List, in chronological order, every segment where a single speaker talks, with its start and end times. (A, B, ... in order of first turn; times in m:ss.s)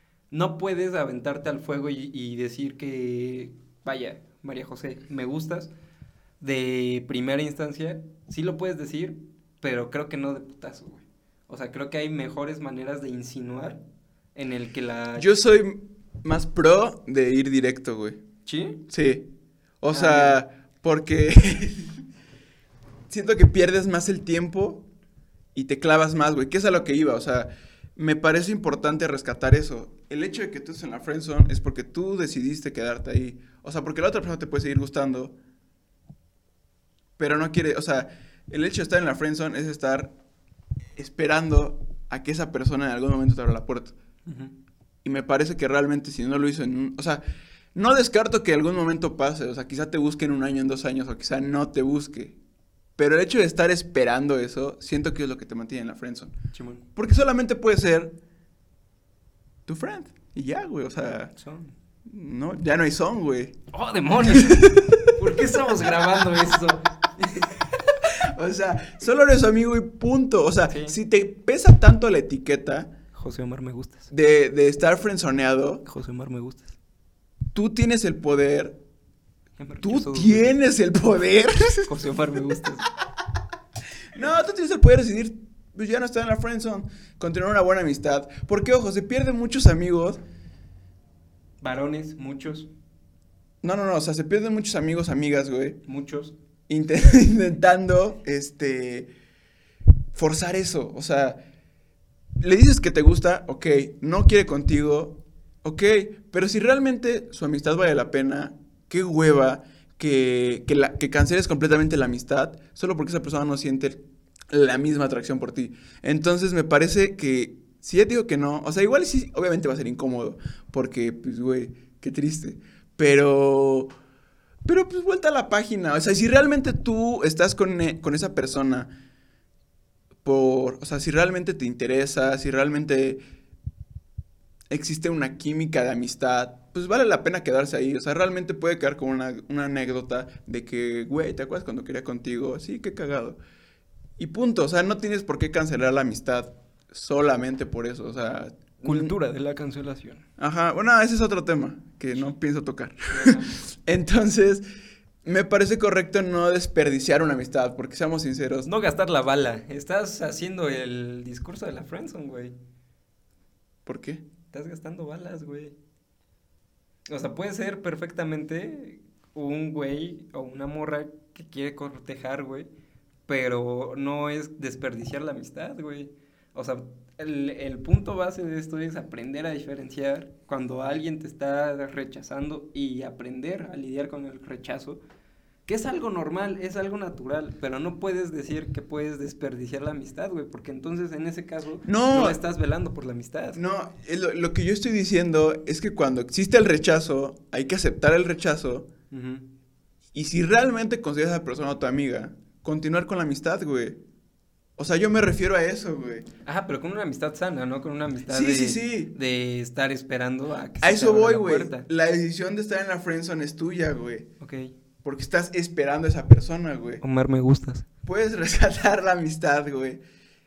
0:00.3-0:05.7 A
0:06.4-0:13.8 A
0:14.4-0:15.3 A
0:15.2-0:18.2 B
0:18.5-0:18.8 A
0:18.9-0:19.3 B
0:19.8-0:22.0 B
0:19.9-0:20.4 A
0:23.1-0:24.8 B
0:25.6-0:35.4 B
0:37.2-0:40.1 B
0:41.0-0:44.0 B
0:44.3-0:44.5 A
0:45.0-0:47.2 B
0:47.8-0:52.4 B
0:53.0-0:56.4 B
0:56.5-0:56.8 A
0:57.0-0:58.1 B
0:59.7-1:01.3 B
1:01.4-1:01.7 A
1:02.1-1:03.6 B
1:03.7-1:08.0 A
1:04.2-1:05.9 B
1:08.0-1:12.9 B
1:10.7-1:11.0 A
1:13.1-1:14.1 A
1:14.1-1:15.8 B
1:15.8-1:16.8 A
1:17.5-1:18.8 B
1:19.6-1:20.6 A
1:19.8-1:22.0 B
1:21.9-1:22.9 A
1:24.1-1:30.2 B
1:31.6-1:32.7 A
1:33.6-1:35.8 B
1:35.9-1:36.3 A
1:36.7-1:39.1 B
1:40.1-1:41.4 B
1:42.4-2:03.9 B
2:04.6-2:08.9 B
2:10.2-2:13.2 B
2:14.7-2:23.4 B
2:24.2-2:29.2 B
2:28.8-2:30.2 A
2:30.4-2:34.6 B
2:33.1-2:33.6 A
2:35.2-2:38.7 B
2:38.7-2:42.6 A
2:43.9-2:44.2 B
2:44.5-2:45.8 A
2:47.1-2:52.7 A
2:53.3-3:05.0 A
3:05.7-3:13.6 A
3:11.9-3:12.4 B
3:13.6-3:18.9 B
3:19.1-3:19.5 A
3:20.1-3:24.0 B
3:24.8-3:26.3 B
3:26.4-3:31.9 A
3:28.3-3:29.1 B
3:30.8-3:34.3 B
3:34.4-3:34.7 A
3:35.0-3:37.0 B
3:37.0-3:37.8 A
3:38.0-3:40.0 B